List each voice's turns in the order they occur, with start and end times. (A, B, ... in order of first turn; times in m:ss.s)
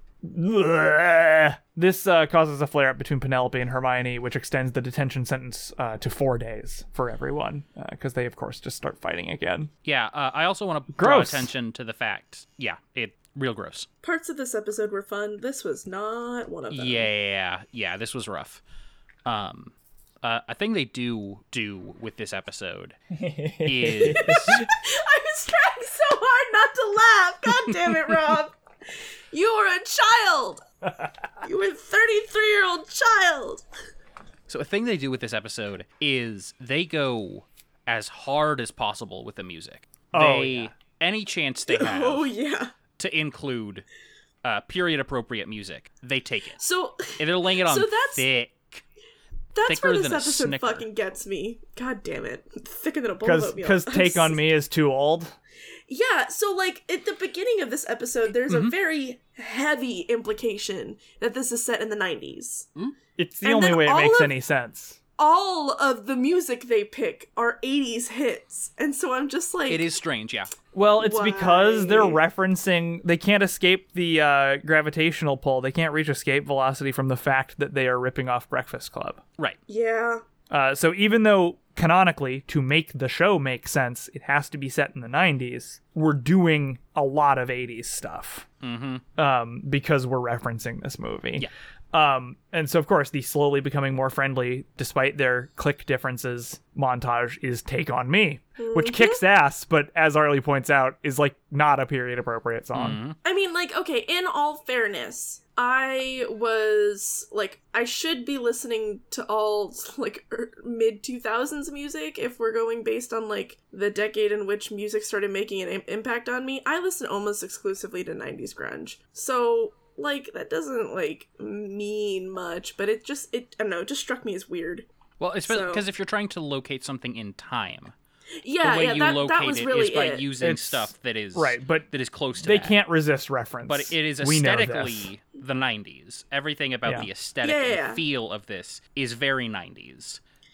0:00.2-0:09.7 A
0:09.8-0:13.9 B
0:10.9-0:11.5 A
0:14.0-0:17.1 C
0:16.7-0:18.6 B
0:19.2-0:23.0 B
0:23.1-0:24.7 A
0:23.6-0:24.6 B
0:24.0-0:28.5 C
0:29.3-0:30.6 C
0:31.4-0:33.6 C
0:34.5-0:42.3 B
0:40.1-0:40.7 A
0:41.7-0:42.7 C
0:43.0-0:43.8 B
0:44.4-0:48.8 B
0:46.6-0:48.2 C
0:49.5-0:54.4 C
0:49.6-0:50.8 B
0:53.2-0:55.3 A
0:55.9-1:02.7 C
0:58.5-0:58.7 B
1:03.2-1:05.0 A
1:03.4-1:04.3 C
1:05.2-1:09.9 C
1:09.7-1:10.5 B
1:10.7-1:19.2 A
1:11.0-1:12.2 C
1:19.7-1:20.2 C
1:20.5-1:28.4 A
1:28.6-1:29.0 B
1:29.2-1:43.0 A
1:38.6-1:39.2 C
1:42.7-1:43.2 B
1:43.2-2:04.9 C
2:05.2-2:07.9 B
2:05.4-2:05.8 C
2:08.4-2:10.3 C
2:08.6-2:12.7 B
2:10.4-2:11.9 A
2:12.4-2:15.1 A
2:13.7-2:20.2 B
2:17.4-2:18.0 C